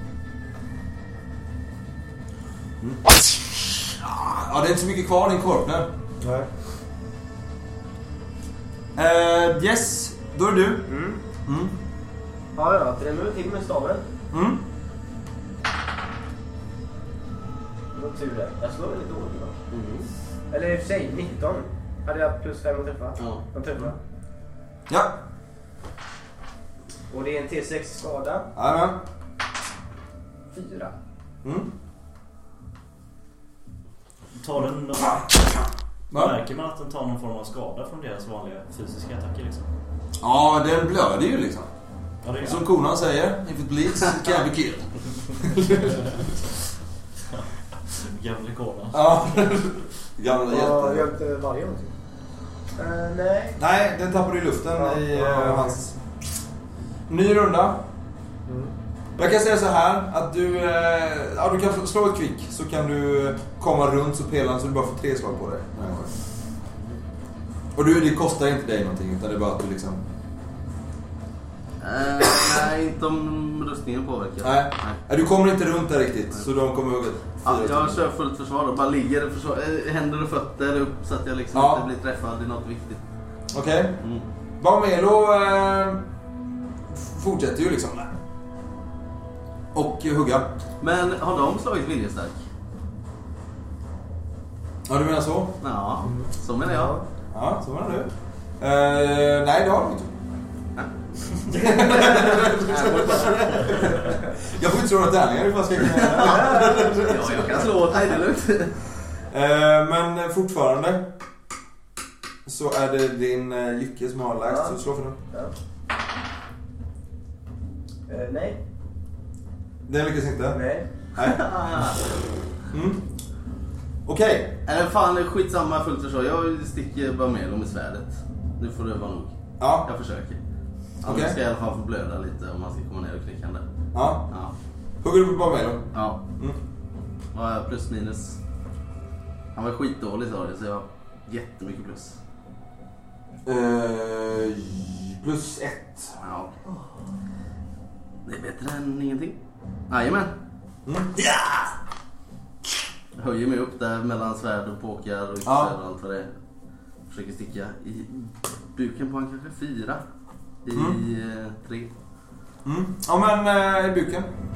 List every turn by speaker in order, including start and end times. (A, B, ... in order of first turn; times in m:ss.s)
0:02.8-0:05.9 A
0:06.2-0:06.5 B
0:09.0-0:10.9 A
0:10.9-0:11.2 C
0:11.4-0:11.8 A
0:12.5-0:14.0 C
0:14.3-0:14.6 A
0:17.9-0:19.6 C
0:19.7-0:20.1 D
0:20.5-0:24.0 C
0:23.2-0:23.4 D
0:24.9-0:25.2 A
0:27.1-0:28.5 C
0:28.6-0:29.0 A
0:30.5-0:30.9 C
0:31.4-0:31.7 A
0:34.3-0:35.4 E
0:36.1-0:36.4 A
0:36.1-0:39.7 E
0:40.2-0:41.7 A
0:42.2-0:42.7 E
0:42.4-0:46.4 A
0:47.3-0:49.0 E
0:48.9-0:51.1 A
0:50.5-0:51.9 B
0:52.8-0:53.6 C
0:53.6-0:55.9 A
0:54.8-0:55.8 B
0:57.1-0:57.8 A
0:58.4-0:58.7 B
0:59.2-1:06.1 A
1:07.7-1:10.0 A
1:11.8-1:15.0 D
1:14.4-1:18.0 A
1:17.4-1:23.0 D
1:21.5-1:21.8 A
1:23.5-1:24.0 A
1:24.6-1:26.0 A
1:26.9-1:28.1 A
1:29.7-1:30.5 A
1:30.8-1:32.4 D
1:34.9-1:35.6 A
1:35.6-1:37.0 D
1:36.0-1:37.0 B
1:37.3-1:40.1 A
1:41.5-1:48.0 A
1:42.7-1:43.7 D
1:45.8-1:48.8 D
1:46.2-1:46.9 C
1:49.3-1:51.1 A
1:52.4-1:55.2 A
1:54.5-1:54.8 C
1:58.1-1:58.6 C
1:59.9-2:00.6 A
2:00.5-2:00.8 C
2:01.2-2:01.4 A
2:01.2-2:02.2 D
2:02.7-2:03.0 A
2:04.0-2:04.6 A
2:04.6-2:10.4 D
2:09.6-2:09.9 A
2:11.0-2:13.6 D
2:11.0-2:11.4 A
2:13.9-2:14.3 A
2:15.0-2:15.9 A
2:15.9-2:16.2 D
2:17.3-2:18.4 D
2:19.5-2:22.2 D
2:23.4-2:26.2 A
2:26.2-2:26.6 D
2:28.2-2:29.4 D
2:29.9-2:30.3 D
2:30.8-2:31.7 A
2:33.2-2:36.3 D
2:35.4-2:35.7 A
2:37.1-2:40.0 D
2:40.6-2:41.9 D
2:40.7-2:41.0 A
2:42.6-2:44.3 A